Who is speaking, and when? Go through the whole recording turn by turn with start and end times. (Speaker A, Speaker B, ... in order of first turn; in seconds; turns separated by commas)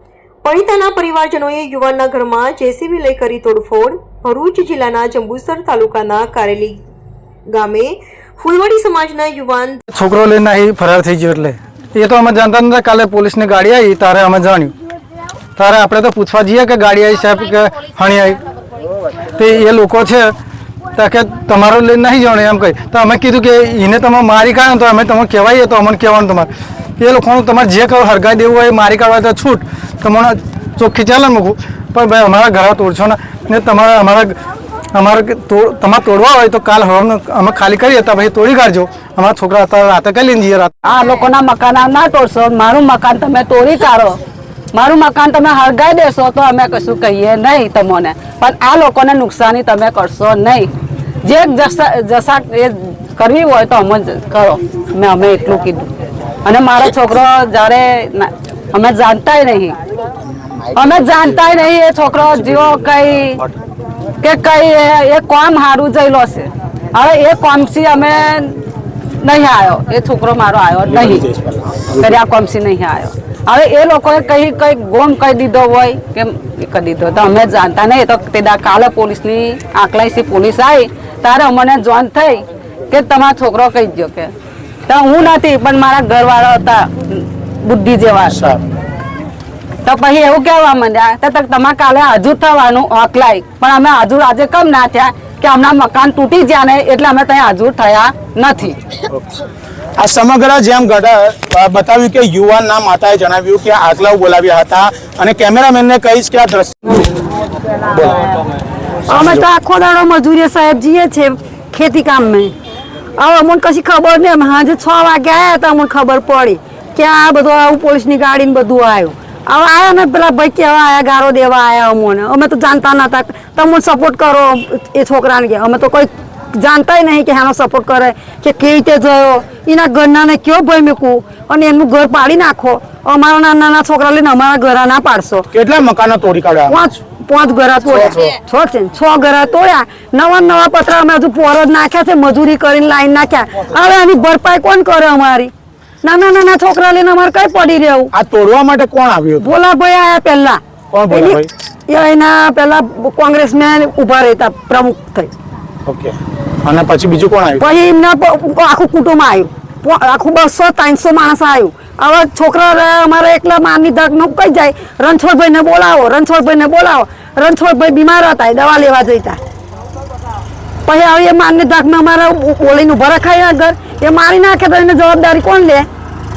Speaker A: 0.4-6.8, Speaker A: 7.5-9.8, Speaker B: 9.9-14.7, Speaker B: 15.6-18.4, Speaker B: 19.3-20.3, Speaker B: 20.9-34.4, Speaker B: 34.9-40.7, Speaker C: 40.8-44.2, Speaker C: 44.7-55.9, Speaker C: 56.4-59.8, Speaker D: 60.5-61.2, Speaker C: 60.7-63.4, Speaker C: 64.2-68.6, Speaker C: 69.2-71.3, Speaker D: 70.9-72.1, Speaker C: 71.9-84.3, Speaker C: 84.9-88.4, Speaker D: 88.3-88.6, Speaker C: 89.8-99.0, Speaker D: 99.1-99.4, Speaker D: 100.0-107.0, Speaker D: 107.8-108.3, Speaker D: 109.1-109.5, Speaker E: 109.1-112.5, Speaker E: 113.2-135.5, Speaker D: 135.5-136.9, Speaker E: 136.7-145.5, Speaker D: 138.1-138.3, Speaker E: 146.0-148.1, Speaker D: 148.1-149.6, Speaker E: 149.4-155.3, Speaker D: 150.9-151.5, Speaker D: 155.8-157.7, Speaker E: 157.6-169.4, Speaker E: 170.8-175.9